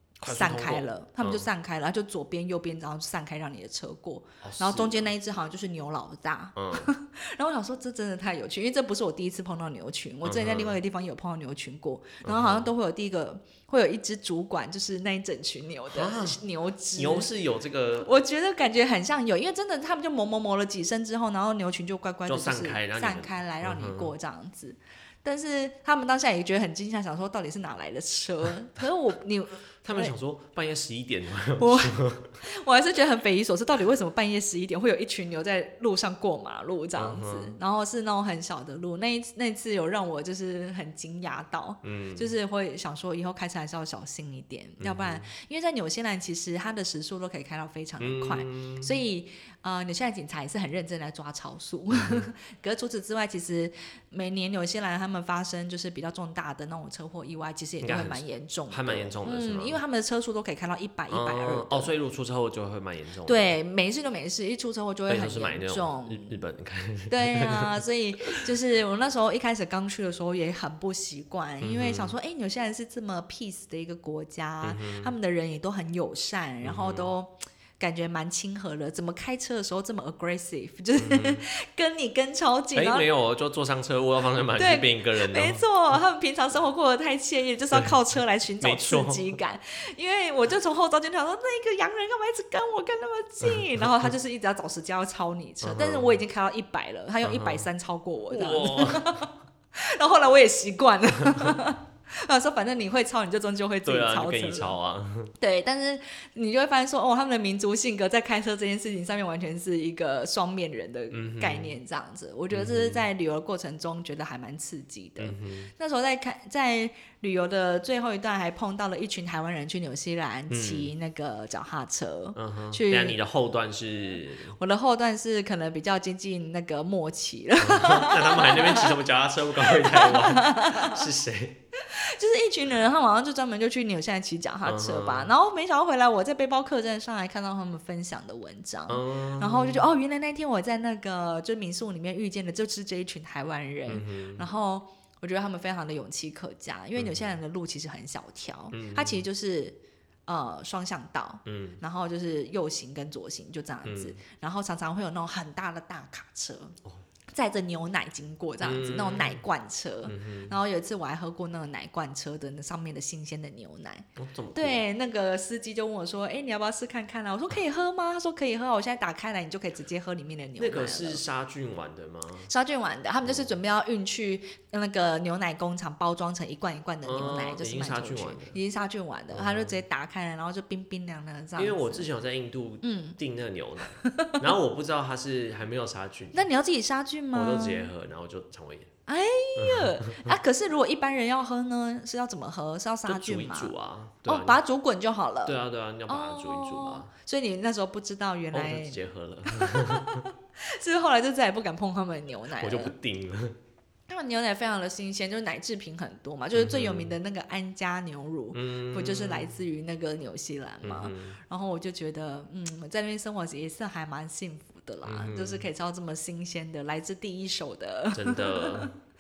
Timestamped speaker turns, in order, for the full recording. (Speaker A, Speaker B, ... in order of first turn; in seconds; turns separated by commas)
Speaker A: 0.2-17.3, Speaker B: 0.2-1.5, Speaker B: 4.4-5.1, Speaker B: 6.6-6.9, Speaker B: 10.2-10.8, Speaker B: 12.2-12.7, Speaker B: 15.9-16.4, Speaker B: 16.9-18.1, Speaker A: 18.0-30.1, Speaker B: 22.3-24.1, Speaker B: 29.8-32.4, Speaker A: 31.6-61.9, Speaker B: 37.0-37.6, Speaker B: 41.8-42.3, Speaker B: 44.8-45.3, Speaker B: 48.0-49.0, Speaker B: 52.0-52.3, Speaker B: 57.8-59.8, Speaker B: 61.1-63.5, Speaker A: 63.3-66.4, Speaker B: 65.1-67.8, Speaker A: 67.1-83.1, Speaker B: 71.6-72.2, Speaker B: 74.6-75.2, Speaker B: 76.6-77.1, Speaker B: 81.0-81.4, Speaker B: 82.7-85.6, Speaker A: 84.5-104.8, Speaker B: 87.7-88.0, Speaker B: 88.6-89.3, Speaker B: 93.5-94.1, Speaker B: 95.6-96.2, Speaker B: 97.2-97.7, Speaker B: 98.3-99.3, Speaker B: 101.2-101.6, Speaker B: 103.8-105.3, Speaker A: 105.4-123.2, Speaker B: 111.1-111.8, Speaker B: 112.5-113.1, Speaker B: 115.2-115.7, Speaker B: 120.5-120.9, Speaker B: 122.4-124.6, Speaker A: 124.5-129.0, Speaker B: 127.6-131.6, Speaker A: 129.6-131.1, Speaker A: 131.8-156.8, Speaker B: 134.6-135.3, Speaker B: 138.9-139.9, Speaker B: 143.9-144.5, Speaker B: 147.0-147.3, Speaker B: 148.7-149.2, Speaker B: 151.5-151.8, Speaker B: 153.8-154.2, Speaker A: 157.3-171.2, Speaker B: 158.6-159.4, Speaker B: 160.1-160.6, Speaker B: 164.2-164.8, Speaker B: 170.6-172.5, Speaker A: 172.5-182.1, Speaker B: 173.2-173.6, Speaker B: 177.0-178.6, Speaker B: 179.3-179.8, Speaker B: 181.6-186.5, Speaker A: 182.8-183.2, Speaker A: 183.9-184.4, Speaker A: 186.3-187.9, Speaker B: 187.3-188.9, Speaker A: 189.1-193.7, Speaker B: 189.6-190.3, Speaker B: 193.1-194.6, Speaker A: 194.3-202.9, Speaker B: 195.4-197.1, Speaker B: 198.5-200.3, Speaker B: 202.6-203.6, Speaker A: 204.1-218.9, Speaker B: 206.5-207.2, Speaker B: 208.5-209.6, Speaker B: 210.8-211.4, Speaker B: 215.0-215.7, Speaker B: 218.1-219.0